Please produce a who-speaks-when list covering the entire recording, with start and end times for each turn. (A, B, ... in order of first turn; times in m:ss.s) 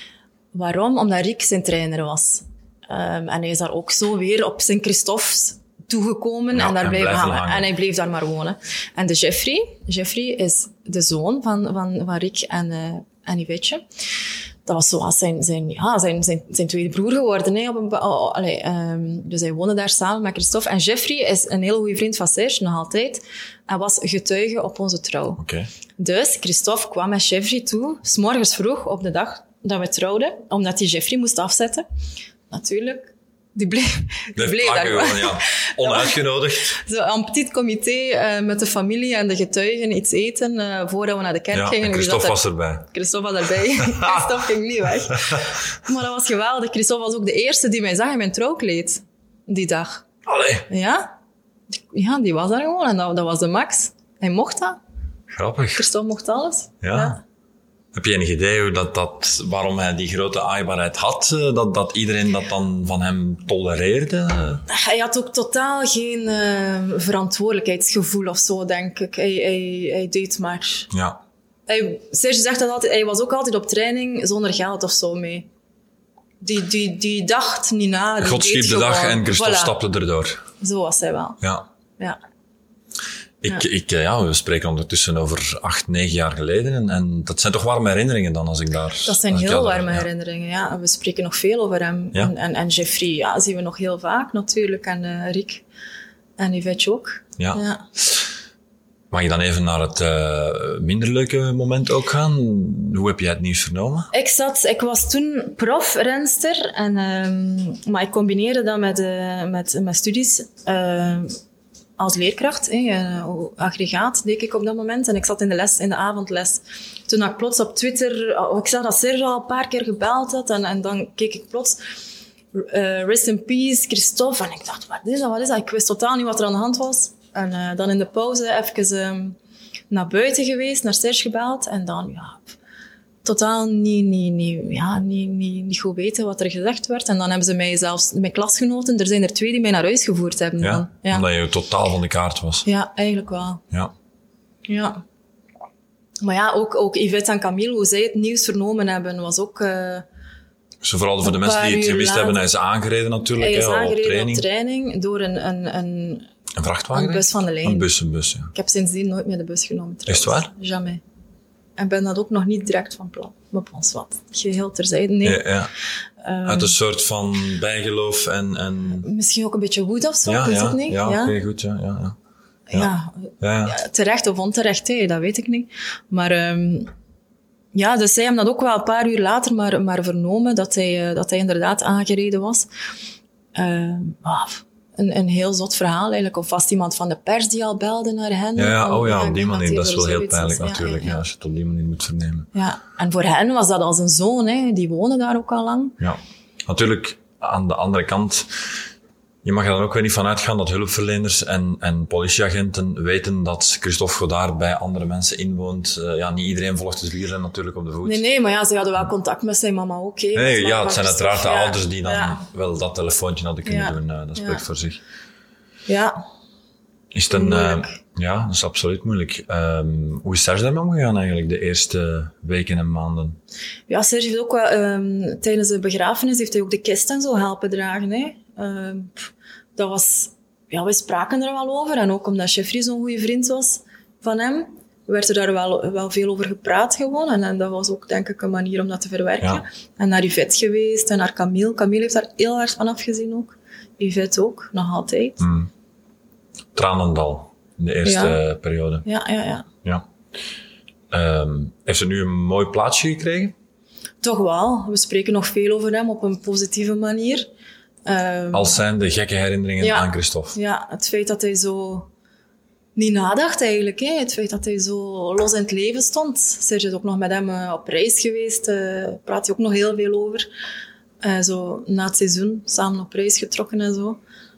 0:00.5-0:13.8 A
0:06.5-0:07.7 B
0:14.7-0:25.4 A
0:25.4-0:25.7 B
0:26.0-0:31.9 A
0:32.5-0:36.2 A
0:34.4-0:36.8 B
0:36.7-0:50.0 A
0:41.5-0:42.9 B
0:50.2-0:50.7 B
0:50.7-0:51.1 A
0:51.9-0:54.8 A
0:55.3-0:55.8 B
0:55.8-0:57.2 A
0:56.8-0:57.2 B
0:57.9-1:04.6 B
1:04.7-1:10.9 A
1:10.9-1:11.2 B
1:11.7-1:15.5 A
1:16.4-1:19.8 A
1:18.2-1:20.4 B
1:20.6-1:21.4 A
1:21.4-1:21.7 B
1:23.4-1:30.1 B
1:29.0-1:35.6 A
1:36.4-1:37.8 A
1:39.1-1:44.1 B
1:44.1-1:51.3 A
1:52.0-2:01.8 A
2:02.5-2:09.4 A
2:09.9-2:12.5 A
2:13.2-2:21.2 A
2:20.6-2:22.6 B
2:22.6-2:23.6 A
2:24.7-2:25.0 A
2:26.2-2:30.1 A
2:30.8-2:34.5 B
2:31.2-2:32.5 A
2:33.4-2:36.2 A
2:36.6-2:38.5 B
2:36.9-2:37.9 A
2:38.5-2:41.0 A
2:40.1-2:40.5 B
2:41.8-2:45.5 A
2:45.2-2:45.7 B
2:46.2-2:46.7 A
2:46.4-2:49.1 B
2:49.0-2:51.4 A
2:50.2-2:52.2 B
2:52.7-2:56.9 A
2:52.7-2:53.8 B
2:57.7-3:02.7 A
3:03.5-3:11.2 A
3:08.6-3:12.5 B
3:12.5-3:16.0 A
3:16.0-3:18.5 B
3:19.4-3:28.2 B
3:28.0-3:32.4 A
3:30.4-3:35.0 B
3:33.6-3:34.6 A
3:35.9-3:36.2 A
3:37.1-3:43.4 B
3:37.3-3:37.9 A
3:43.9-4:05.4 A
4:05.4-4:05.7 B
4:06.8-4:09.1 B
4:08.0-4:08.4 A
4:09.0-4:09.6 A
4:11.1-4:13.5 B
4:14.2-4:17.5 A
4:18.0-4:18.8 A
4:18.5-4:20.6 B
4:19.8-4:22.1 A
4:23.0-4:30.5 A
4:31.2-4:34.2 A